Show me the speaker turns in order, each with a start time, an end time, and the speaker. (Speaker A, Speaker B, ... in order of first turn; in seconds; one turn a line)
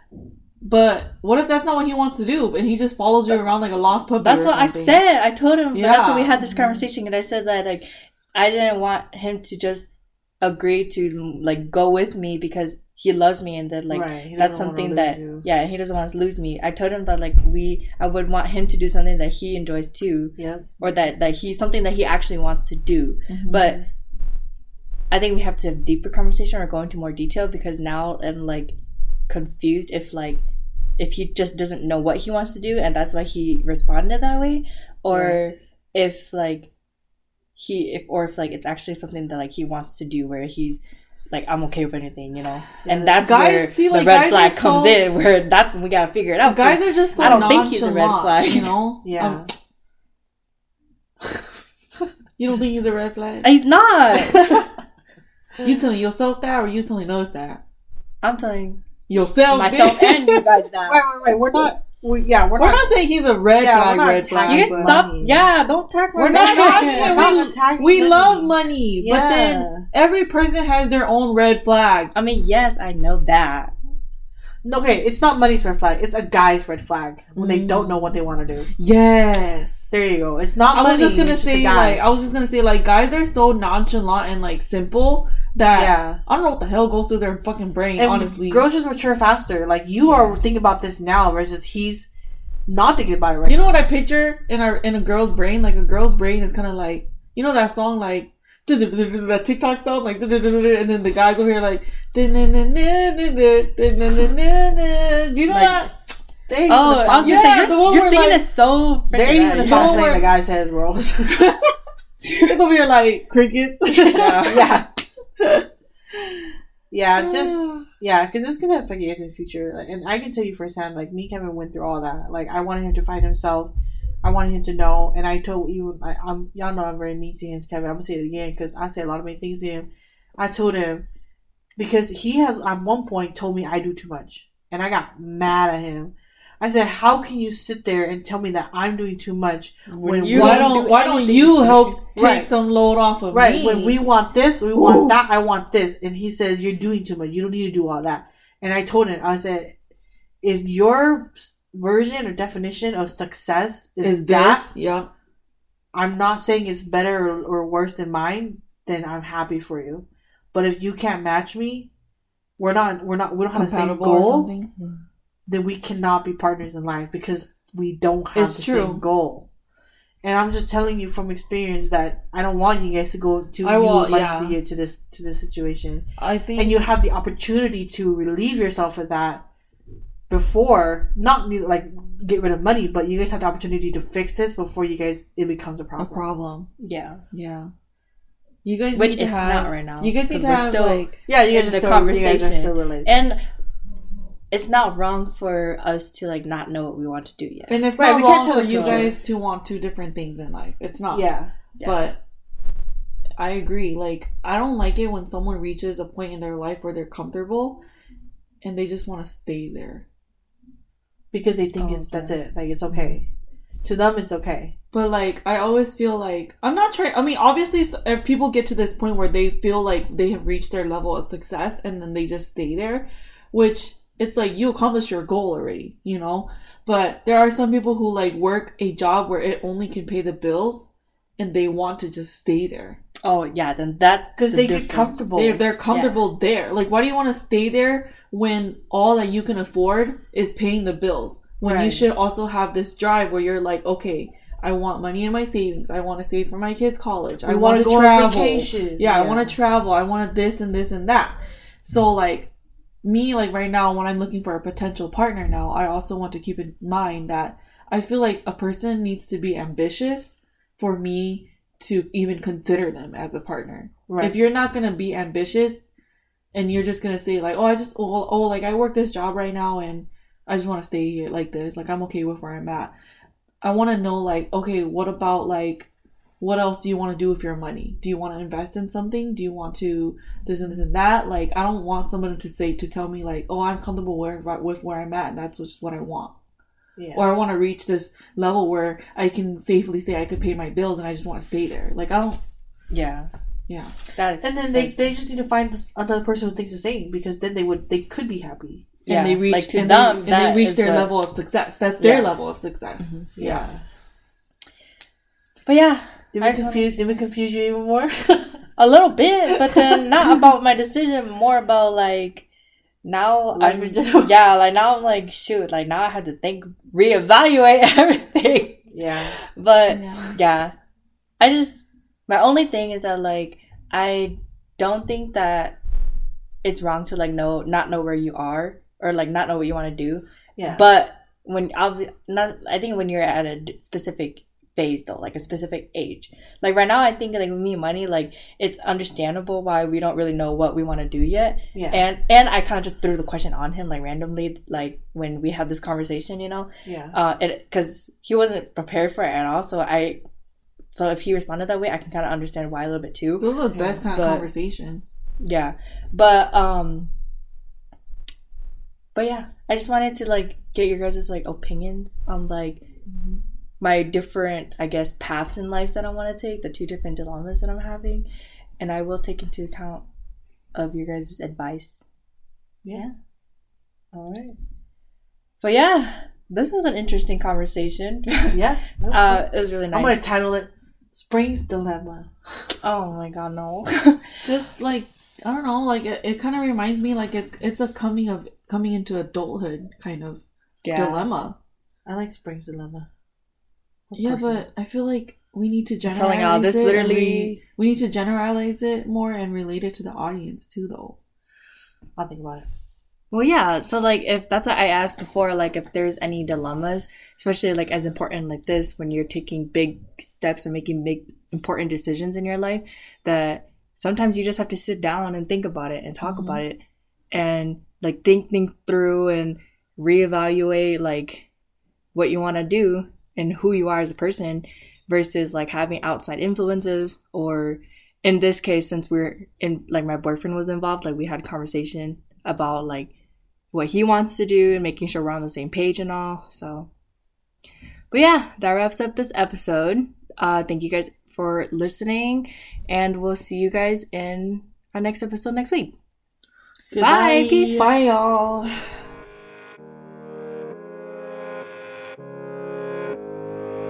Speaker A: 0.6-5.0
Speaker B: 4.2-23.8
Speaker A: 5.7-6.4
Speaker C: 6.4-6.8
Speaker C: 13.9-15.4
Speaker C: 20.4-20.7
Speaker A: 23.3-23.7
Speaker B: 25.1-28.8
Speaker B: 29.3-30.4
Speaker B: 31.0-36.7
Speaker C: 35.1-35.4
Speaker B: 37.6-48.8
Speaker C: 42.8-43.2
Speaker A: 43.2-45.0
Speaker A: 46.4-49.5
Speaker C: 47.2-47.7
Speaker C: 49.0-49.5
Speaker A: 52.4-53.5
Speaker B: 53.4-54.7
Speaker A: 55.6-57.6
Speaker B: 58.2-58.8
Speaker A: 59.1-60.4
Speaker B: 59.5-61.0
Speaker C: 60.9-63.0
Speaker A: 62.6-65.0
Speaker C: 63.6-65.4
Speaker B: 64.5-67.3
Speaker A: 66.2-72.3
Speaker C: 66.3-69.9
Speaker B: 72.1-73.7
Speaker C: 74.6-78.7
Speaker A: 77.4-78.2
Speaker A: 78.8-79.9
Speaker C: 79.9-82.0
Speaker A: 80.7-88.7
Speaker C: 85.7-86.2
Speaker C: 88.0-92.1
Speaker A: 90.0-90.4
Speaker C: 92.7-93.8
Speaker A: 93.5-105.9
Speaker B: 105.5-105.9
Speaker C: 106.5-107.7
Speaker B: 106.7-110.1
Speaker A: 107.1-108.4
Speaker C: 109.1-111.5
Speaker A: 109.7-110.3
Speaker A: 111.4-111.7
Speaker A: 112.2-114.8
Speaker C: 114.0-114.9
Speaker B: 114.1-114.7
Speaker A: 115.4-116.5
Speaker C: 116.9-131.1
Speaker A: 117.2-117.9
Speaker C: 131.8-140.8
Speaker B: 139.9-142.0
Speaker A: 140.2-144.0
Speaker C: 142.2-142.5
Speaker C: 143.3-149.8
Speaker A: 144.8-145.2
Speaker C: 150.4-154.7
Speaker A: 154.0-155.1
Speaker C: 155.9-161.9
Speaker C: 162.6-164.5
Speaker A: 163.5-164.7
Speaker B: 164.8-165.0
Speaker C: 165.5-169.5
Speaker A: 168.3-169.0
Speaker C: 170.2-179.4
Speaker A: 173.6-174.6
Speaker A: 176.2-176.8
Speaker C: 180.3-186.3
Speaker A: 186.0-186.7
Speaker B: 186.8-187.2
Speaker A: 187.3-187.7
Speaker A: 188.7-191.2
Speaker B: 188.9-193.4
Speaker C: 191.3-193.1
Speaker B: 194.5-197.8
Speaker A: 197.7-201.3
Speaker C: 198.0-199.2
Speaker B: 198.7-199.1
Speaker C: 201.1-201.5
Speaker A: 201.8-202.2
Speaker A: 203.4-207.8
Speaker A: 208.6-210.1
Speaker C: 211.3-213.3
Speaker B: 211.8-212.3
Speaker C: 213.8-214.8
Speaker A: 214.9-233.0
Speaker B: 233.2-235.2
Speaker C: 234.4-235.6
Speaker A: 235.4-252.5
Speaker B: 235.9-236.2
Speaker C: 241.6-242.1
Speaker C: 247.4-249.6
Speaker A: 253.0-265.8
Speaker C: 264.1-264.4
Speaker A: 266.5-272.9
Speaker A: 273.6-275.9
Speaker A: 276.4-286.4
Speaker C: 287.0-287.2
Speaker A: 287.1-292.4
Speaker B: 292.9-293.3
Speaker A: 293.7-293.9
Speaker B: 294.1-295.1
Speaker C: 294.4-298.9
Speaker B: 299.1-301.1
Speaker A: 299.1-303.6
Speaker B: 302.0-302.3
Speaker C: 303.4-303.8
Speaker B: 305.7-307.2
Speaker C: 306.3-308.6
Speaker B: 308.8-312.5
Speaker C: 309.6-310.1
Speaker B: 313.0-318.9
Speaker C: 313.6-314.3
Speaker C: 318.9-319.4
Speaker B: 319.4-320.7
Speaker A: 319.9-320.4
Speaker B: 321.4-325.8
Speaker B: 326.6-350.2
Speaker C: 330.6-330.8
Speaker C: 341.8-342.0
Speaker C: 346.9-347.2
Speaker B: 350.9-353.5
Speaker A: 353.4-355.1
Speaker C: 353.7-354.0
Speaker B: 354.0-354.5
Speaker B: 355.4-357.1
Speaker B: 359.1-362.9
Speaker C: 363.1-363.4
Speaker B: 363.8-368.3
Speaker B: 368.8-370.1
Speaker B: 370.8-372.0
Speaker C: 374.1-374.6
Speaker B: 375.6-378.6
Speaker C: 378.5-382.7
Speaker B: 379.1-380.2
Speaker B: 382.8-384.3
Speaker A: 384.4-391.6
Speaker B: 390.8-391.3
Speaker C: 392.1-393.1
Speaker C: 394.1-394.7
Speaker A: 394.1-401.2
Speaker B: 396.1-397.6
Speaker C: 402.2-402.7
Speaker B: 403.3-416.8
Speaker C: 416.2-416.6
Speaker B: 417.3-421.5
Speaker B: 422.1-433.1
Speaker B: 433.7-436.9
Speaker B: 438.1-445.9
Speaker C: 446.9-448.0
Speaker B: 447.0-447.9
Speaker A: 447.8-448.8